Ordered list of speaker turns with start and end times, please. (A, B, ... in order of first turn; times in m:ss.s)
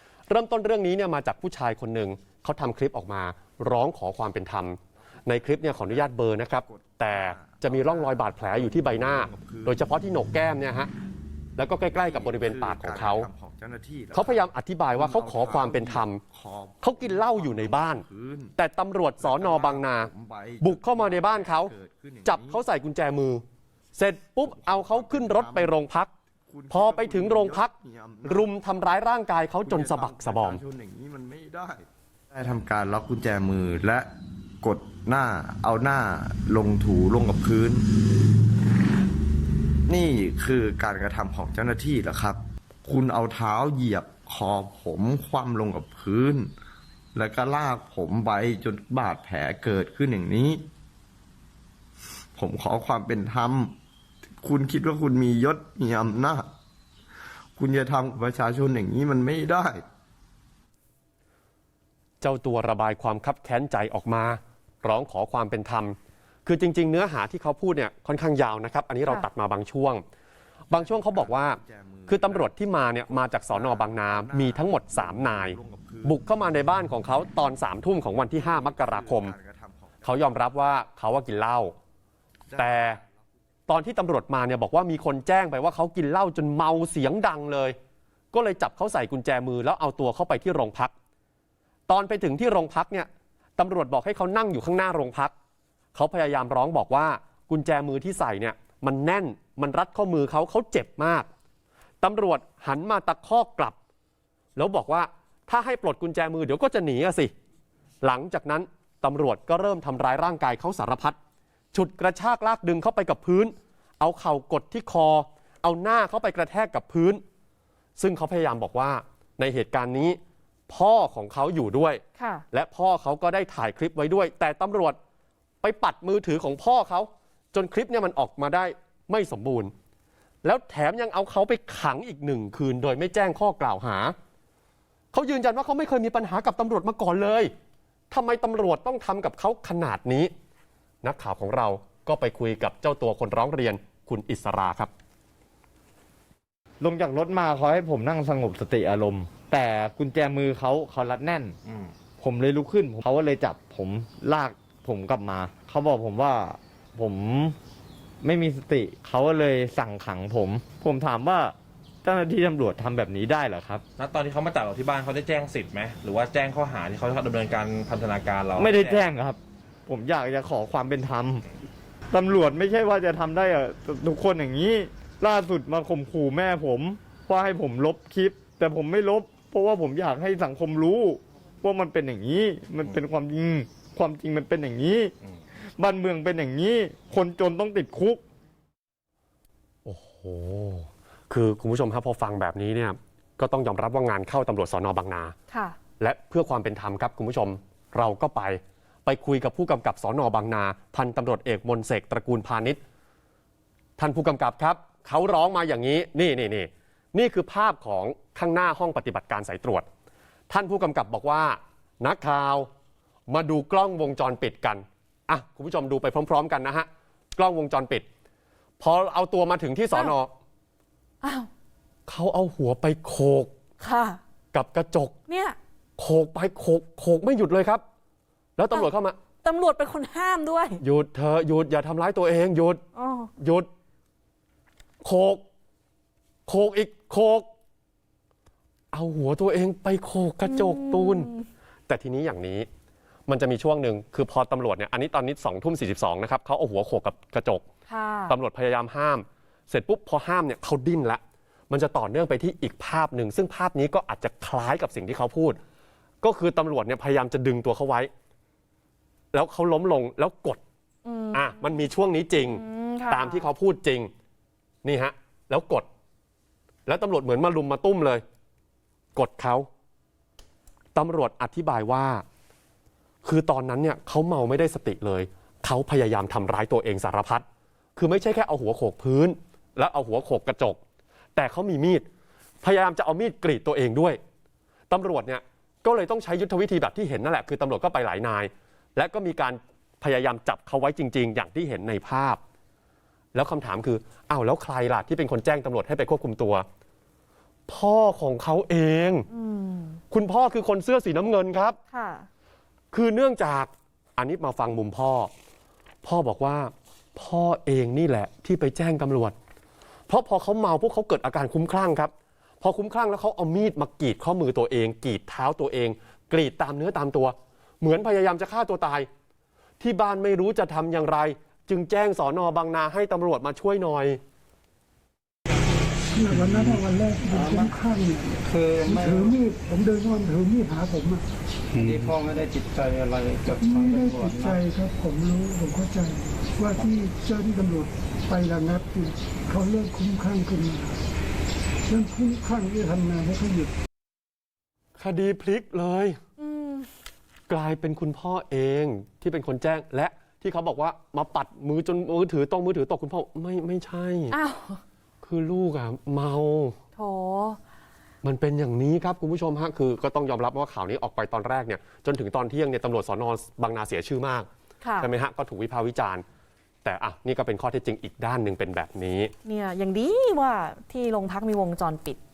0:00.3-0:10.9 A
0:06.6-0:09.8 B
0:11.6-0:13.3 A
0:12.0-0:18.6 B
0:14.1-0:16.2 A
0:16.8-0:18.0 A
0:18.6-0:21.7 A
0:19.2-0:22.6 B
0:22.2-0:23.4 A
0:24.0-0:26.1 A
0:24.4-0:25.8 B
0:26.5-0:28.5 B
0:26.7-0:27.7 A
0:28.2-0:30.6 A
0:29.6-0:34.1 B
0:34.6-0:37.9 B
0:39.9-0:46.5 B
0:47.2-0:50.7 B
0:52.4-0:53.8 B
0:54.4-0:56.5 B
0:57.6-0:59.8 B
1:02.2-1:10.0 A
1:10.7-1:19.4 A
1:10.7-1:12.5 B
1:13.5-1:16.2 B
1:18.4-1:20.1 B
1:20.0-1:21.8 A
1:22.5-1:23.0 B
1:22.6-1:23.0 A
1:23.7-1:27.8 A
1:28.3-1:30.9 A
1:31.9-1:35.3 A
1:35.9-1:41.3 A
1:42.0-1:43.8 A
1:44.6-1:47.3 A
1:48.0-1:51.2 A
1:51.7-1:57.2 A
1:58.0-2:05.0 A
2:02.2-2:02.4 C
2:05.6-2:09.7 A
2:10.4-2:14.2 A
2:15.1-2:17.5 A
2:18.1-2:20.3 A
2:21.0-2:24.9 A
2:26.8-2:31.6 D
2:31.7-2:32.0 E
2:32.2-2:37.6 D
2:38.2-2:43.8 D
2:44.0-2:49.1 E
2:48.5-2:51.4 D
2:52.1-3:08.2 D
3:09.8-3:15.4 A
3:15.5-3:15.8 C
3:16.0-3:22.8 A
3:24.0-3:29.8 A
3:30.5-3:32.7 A
3:33.3-3:38.0 A
3:38.8-3:40.3 A
3:41.2-3:41.5 C
3:42.1-3:43.5 A
3:43.8-3:44.2 C
3:44.5-3:45.1 A
3:45.3-3:45.6 C
3:46.0-3:47.8 A
3:48.6-3:49.2 A
3:49.4-3:50.8 C
3:50.8-3:52.8 A
3:53.0-3:53.3 C
3:53.4-3:53.7 A
3:55.0-3:55.4 A
3:56.5-3:57.5 A
3:58.9-4:01.3 A
4:00.4-4:01.5 C
4:01.9-4:02.7 A
4:03.3-4:07.6 A
4:07.9-4:08.4 C
4:08.3-4:15.6 A
4:16.2-4:18.1 A
4:19.3-4:20.6 A
4:21.1-4:21.8 C
4:21.3-4:24.1 A
4:22.5-4:23.5 C
4:24.8-4:25.8 A
4:26.9-4:28.2 A
4:29.2-4:29.7 A
4:31.0-4:32.2 A
4:33.2-4:37.4 A
4:38.0-4:40.8 A
4:41.4-4:42.0 A
4:42.6-4:44.2 A
4:44.9-4:52.4 A
4:53.3-4:56.6 A
4:57.7-4:59.3 A
4:59.3-5:00.0 C
5:00.1-5:01.8 A
5:01.9-5:02.3 C
5:02.9-5:05.3 A
5:06.0-5:09.4 A
5:10.1-5:19.1 A
5:19.8-5:24.2 A
5:26.1-5:31.2 F
5:26.3-5:27.7 G
5:28.4-5:29.4 G
5:31.7-5:34.6 G
5:33.6-5:41.0 F
5:41.9-5:43.7 F
5:45.0-5:46.2 A
5:46.4-5:46.9 C
5:47.5-5:54.3 A
5:54.3-5:54.8 C
5:55.2-5:56.8 A
5:57.0-5:57.6 C
5:58.2-6:04.5 A
6:04.8-6:05.1 C
6:05.0-6:06.2 A
6:06.8-6:09.3 A
6:09.4-6:12.2 C